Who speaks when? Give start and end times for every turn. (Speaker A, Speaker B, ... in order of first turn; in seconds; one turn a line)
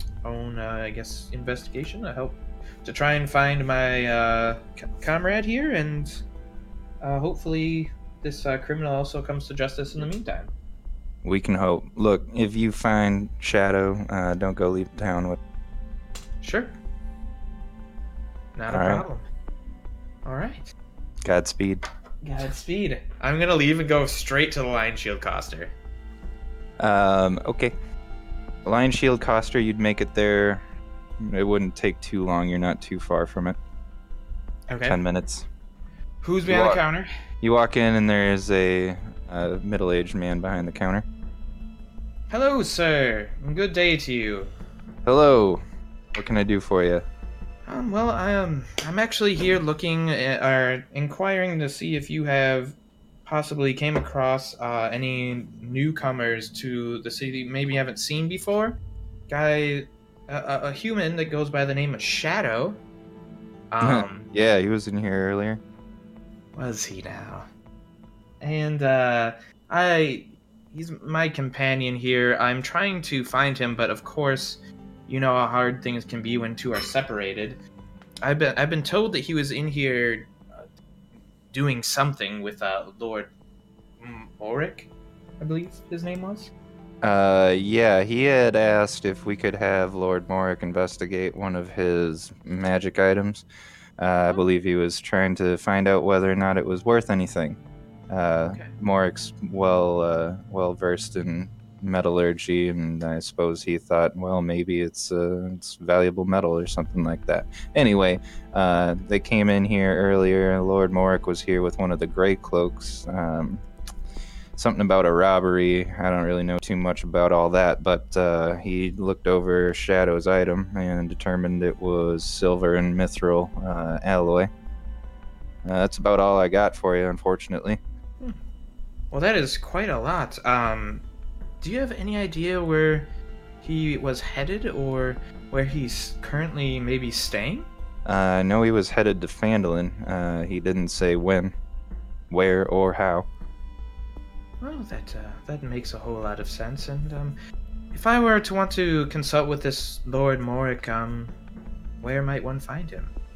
Speaker A: 0.2-6.2
Speaker A: 7.0-10.5
Speaker B: 11.2-15.4
Speaker A: 16.4-16.7
Speaker A: 18.6-19.2
Speaker B: 18.7-19.0
Speaker A: 20.2-20.7
Speaker B: 21.2-21.8
Speaker A: 22.2-25.7
Speaker B: 26.8-27.8
Speaker B: 28.6-30.6
Speaker B: 31.2-33.6
Speaker A: 34.7-35.0
Speaker B: 34.9-35.5
Speaker A: 36.2-37.1
Speaker B: 36.5-36.8
Speaker B: 37.4-41.1
Speaker A: 42.3-44.5
Speaker B: 45.0-45.6
Speaker B: 46.1-47.1
Speaker A: 47.7-62.8
Speaker A: 63.7-64.3
Speaker B: 63.8-65.6
Speaker A: 66.6-67.5
Speaker A: 68.4-77.6
Speaker A: 78.2-80.7
Speaker A: 81.5-83.3
Speaker A: 84.0-84.9
Speaker A: 85.4-86.5
Speaker B: 87.0-93.5
Speaker B: 94.0-97.6
Speaker B: 98.1-113.7
Speaker A: 98.4-98.7
Speaker B: 114.6-124.5
Speaker B: 125.6-127.8
Speaker A: 129.1-131.1
Speaker A: 131.6-133.1
Speaker A: 133.6-137.7
Speaker B: 138.1-141.6
Speaker B: 142.3-143.3
Speaker A: 144.6-147.4
Speaker A: 147.9-151.3
Speaker A: 152.0-153.1